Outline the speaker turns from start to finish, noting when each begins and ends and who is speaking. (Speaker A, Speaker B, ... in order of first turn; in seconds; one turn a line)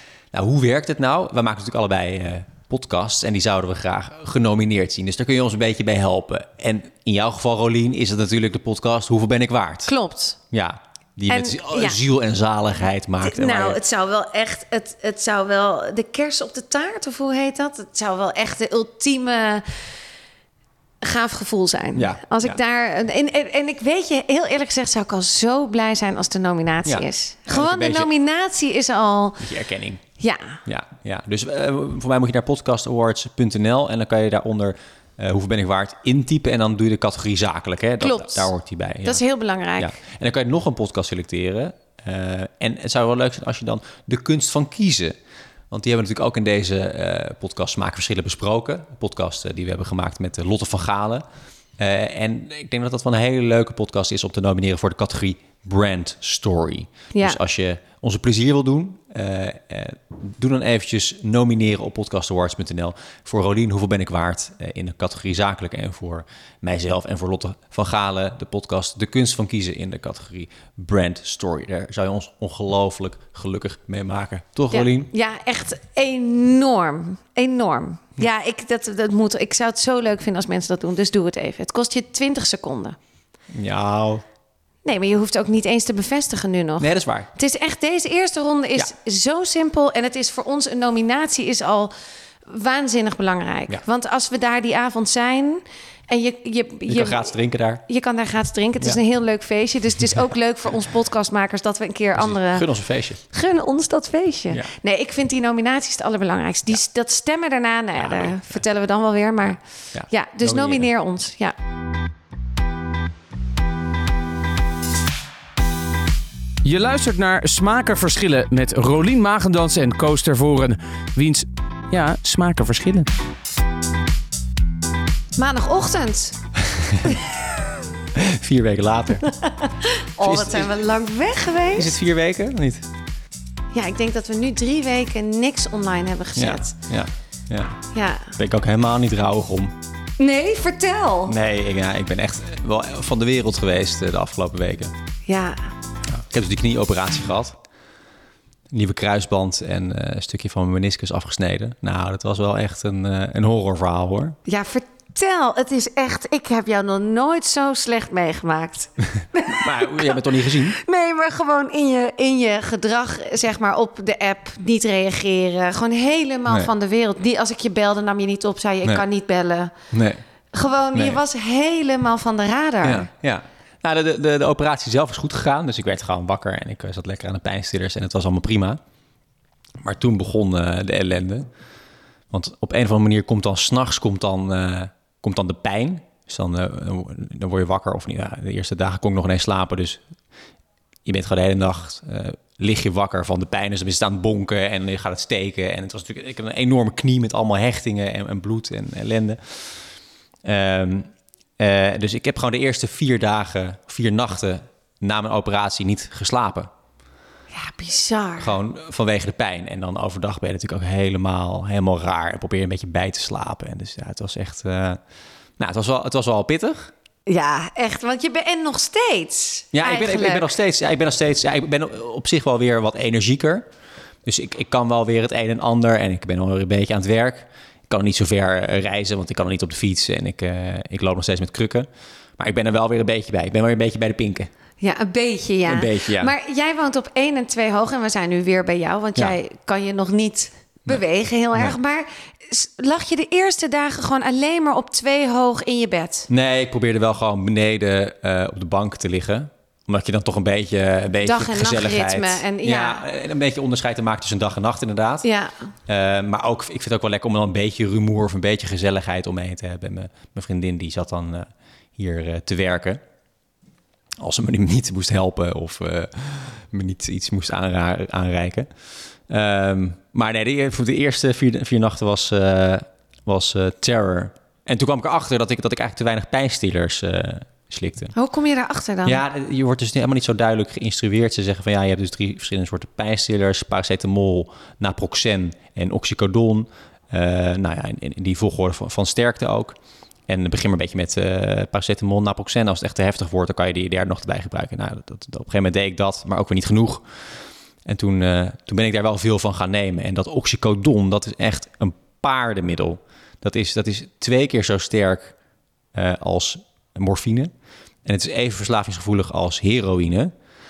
Speaker A: 0.3-9.9
Speaker B: 9.8-10.4
Speaker A: 10.5-13.8
Speaker B: 11.3-12.0
Speaker B: 13.2-19.7
Speaker B: 21.0-29.5
Speaker A: 21.9-22.6
Speaker A: 26.9-28.1
Speaker A: 29.4-30.0
Speaker B: 30.2-30.6
Speaker A: 30.6-39.2
Speaker B: 38.0-38.5
Speaker B: 39.0-39.9
Speaker A: 39.8-45.1
Speaker A: 45.7-51.2
Speaker A: 51.8-75.1
Speaker B: 57.1-57.4
Speaker B: 74.7-83.0
Speaker A: 83.5-84.2
Speaker B: 84.8-91.9
Speaker A: 86.8-87.3
Speaker B: 92.4-97.3
Speaker A: 96.9-97.8
Speaker B: 97.9-102.7
Speaker A: 102.1-103.2
Speaker B: 103.2-111.5
Speaker A: 108.1-108.4
Speaker A: 109.9-110.9
Speaker C: 116.6-123.1
Speaker B: 125.4-126.4
Speaker A: 126.6-127.2
Speaker A: 128.1-129.3
Speaker B: 129.3-131.9
Speaker A: 130.2-130.8
Speaker A: 131.7-132.8
Speaker B: 133.7-136.7
Speaker A: 136.3-137.7
Speaker B: 137.9-138.3
Speaker A: 138.3-139.7
Speaker B: 140.2-141.3
Speaker A: 141.3-144.9
Speaker B: 145.2-145.7
Speaker A: 146.1-147.6
Speaker A: 148.7-154.4
Speaker B: 154.4-169.7
Speaker A: 159.1-160.8
Speaker A: 169.9-170.2
Speaker B: 170.5-173.1
Speaker A: 170.9-171.2
Speaker A: 172.8-178.8
Speaker A: 179.8-181.5
Speaker A: 182.3-190.0
Speaker A: 191.0-199.4
Speaker A: 200.4-206.7
Speaker B: 207.5-208.5
Speaker A: 208.4-215.0
Speaker A: 215.6-216.9
Speaker B: 217.3-220.5
Speaker A: 219.7-223.7
Speaker A: 224.2-231.9
Speaker A: 232.4-234.5
Speaker B: 234.8-246.3
Speaker A: 235.7-236.3
Speaker A: 246.3-255.3
Speaker B: 251.2-253.0
Speaker B: 255.2-255.7
Speaker A: 255.9-263.0
Speaker A: 264.2-268.7
Speaker A: 269.3-278.1
Speaker B: 278.1-279.2
Speaker A: 279.0-289.8
Speaker A: 290.3-297.0
Speaker A: 297.9-305.3
Speaker A: 305.9-307.5
Speaker A: 308.0-310.3